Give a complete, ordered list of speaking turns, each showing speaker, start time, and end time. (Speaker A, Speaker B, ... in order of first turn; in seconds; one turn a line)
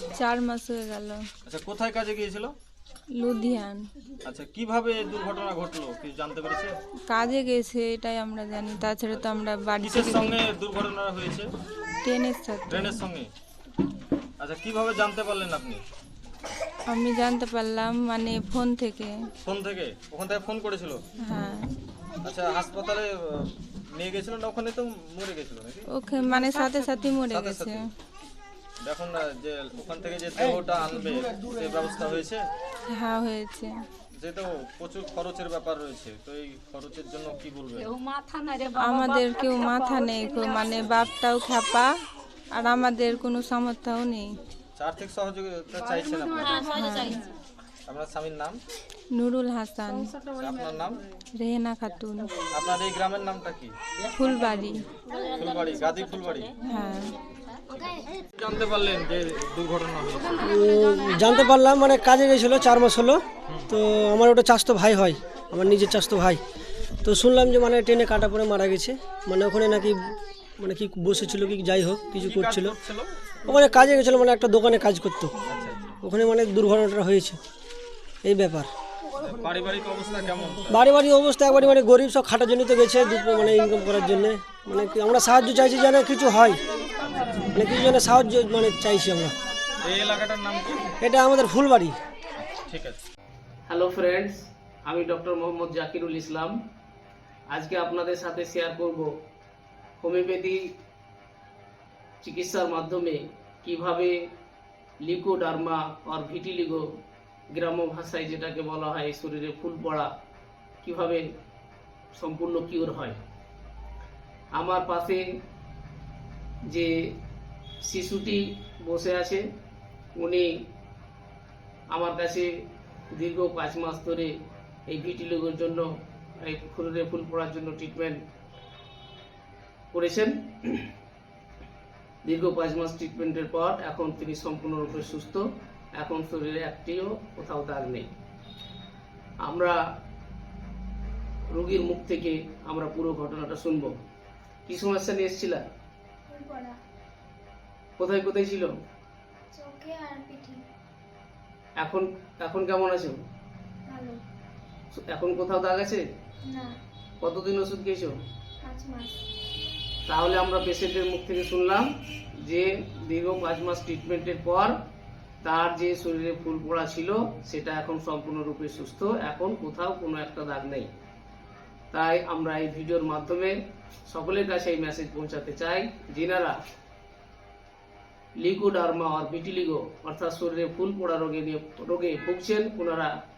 Speaker A: 0.2-1.2
Speaker B: 1.4-2.5
Speaker A: 3.2-3.8
Speaker B: 4.2-6.7
Speaker A: 7.1-10.4
Speaker B: 9.1-11.5
Speaker A: 12.0-13.0
Speaker B: 12.7-13.3
Speaker B: 14.4-15.8
Speaker A: 16.9-19.1
Speaker B: 19.4-21.0
Speaker A: 21.3-21.7
Speaker B: 22.2-25.9
Speaker A: 25.9-27.8
Speaker B: 27.3-27.8
Speaker B: 28.8-32.4
Speaker A: 32.9-33.7
Speaker B: 34.1-38.0
Speaker A: 38.7-41.9
Speaker A: 42.5-44.3
Speaker B: 44.8-46.7
Speaker A: 46.6-47.2
Speaker B: 47.9-48.6
Speaker A: 49.1-50.2
Speaker B: 50.3-51.0
Speaker A: 51.4-52.3
Speaker B: 52.5-53.7
Speaker A: 54.1-54.9
Speaker B: 55.4-56.5
Speaker A: 56.6-57.1
Speaker B: 58.4-60.4
Speaker C: 60.4-66.4
Speaker C: 67.0-70.0
Speaker C: 70.6-72.8
Speaker B: 72.2-73.1
Speaker C: 73.5-75.3
Speaker B: 75.5-76.0
Speaker C: 76.0-77.4
Speaker C: 78.2-78.7
Speaker B: 79.2-80.8
Speaker C: 80.7-86.6
Speaker B: 87.0-87.4
Speaker C: 87.5-89.3
Speaker B: 89.8-90.9
Speaker C: 91.0-91.9
Speaker B: 92.4-93.0
Speaker D: 93.7-96.5
Speaker D: 97.5-99.1
Speaker D: 100.0-100.6
Speaker D: 102.2-104.1
Speaker D: 105.0-106.8
Speaker D: 107.5-110.1
Speaker D: 110.8-111.2
Speaker D: 112.2-113.2
Speaker D: 114.5-115.2
Speaker D: 117.8-119.4
Speaker D: 120.2-120.5
Speaker D: 121.9-122.5
Speaker D: 123.1-124.3
Speaker D: 124.9-125.9
Speaker D: 126.5-128.2
Speaker D: 129.9-130.9
Speaker D: 132.2-135.4
Speaker D: 136.0-138.1
Speaker D: 139.4-139.8
Speaker D: 141.5-143.9
Speaker D: 144.7-145.6
Speaker E: 146.3-146.8
Speaker D: 148.0-148.7
Speaker E: 149.5-150.6
Speaker D: 151.8-153.2
Speaker E: 153.9-154.2
Speaker D: 154.9-156.0
Speaker E: 156.5-156.8
Speaker D: 157.2-158.1
Speaker E: 158.6-159.2
Speaker D: 160.1-161.8
Speaker D: 162.5-164.7
Speaker D: 165.4-170.9
Speaker D: 171.9-173.5
Speaker D: 174.1-176.6
Speaker D: 178.4-183.1